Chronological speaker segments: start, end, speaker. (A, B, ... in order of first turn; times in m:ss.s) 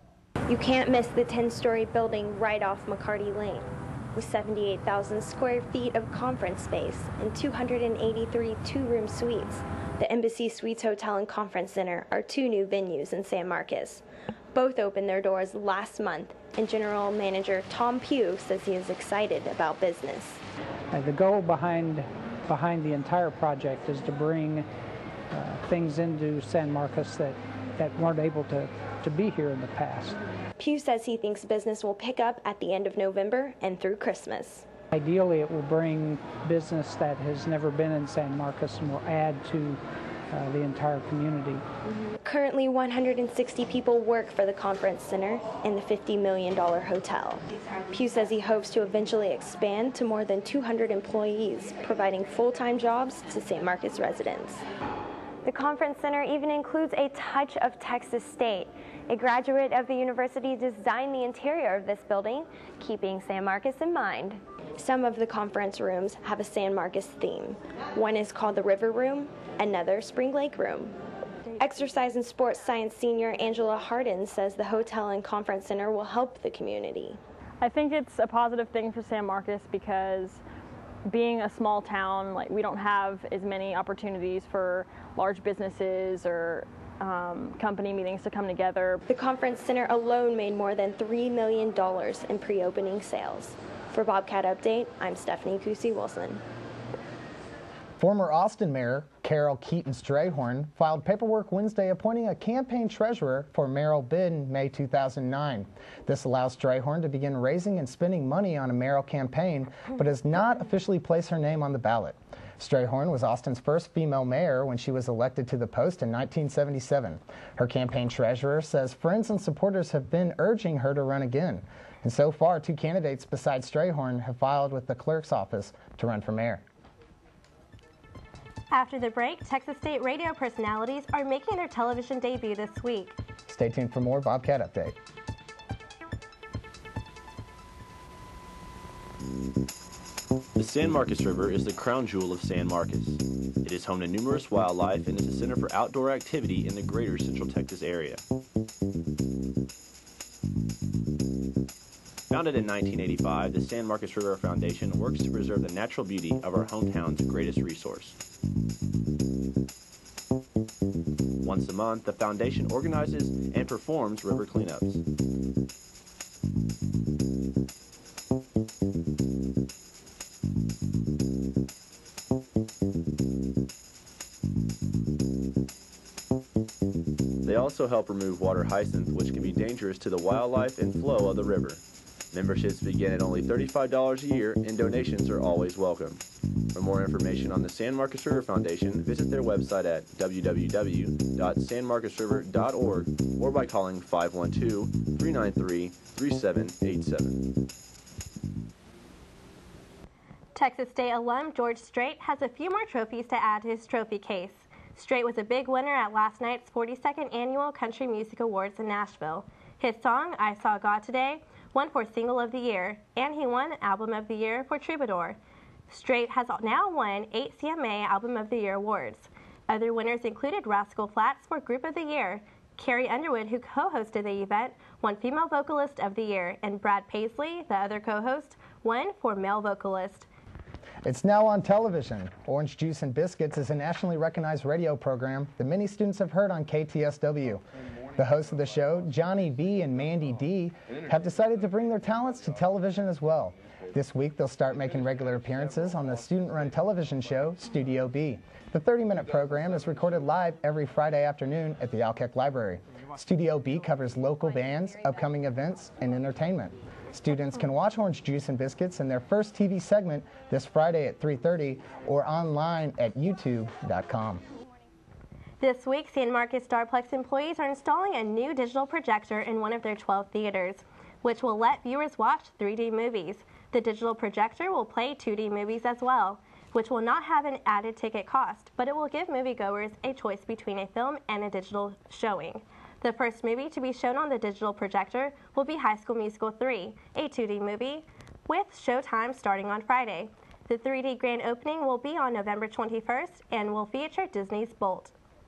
0:00.5-0:20.4 A
0:20.9-0:24.6 B
0:25.3-0:30.2 B
0:30.6-0:34.7 A
0:34.9-0:39.8 B
0:40.3-0:41.6 B
0:42.2-0:54.6 A
0:55.4-1:11.0 A
1:11.6-1:17.2 A
1:17.6-1:20.4 C
1:21.1-1:29.0 C
1:29.1-1:36.4 A
1:38.0-2:06.6 D
2:08.7-2:13.2 E
2:13.5-2:14.9 D
2:20.6-2:28.2 F
2:32.3-2:38.2 F
2:41.4-2:45.0 F
2:57.4-3:01.8 F
3:02.3-3:06.2 F
3:06.7-3:17.4 F
3:20.5-3:35.4 E
3:35.9-3:50.3 E
3:51.0-3:57.6 D
3:58.2-4:24.4 D
4:25.6-4:55.1 E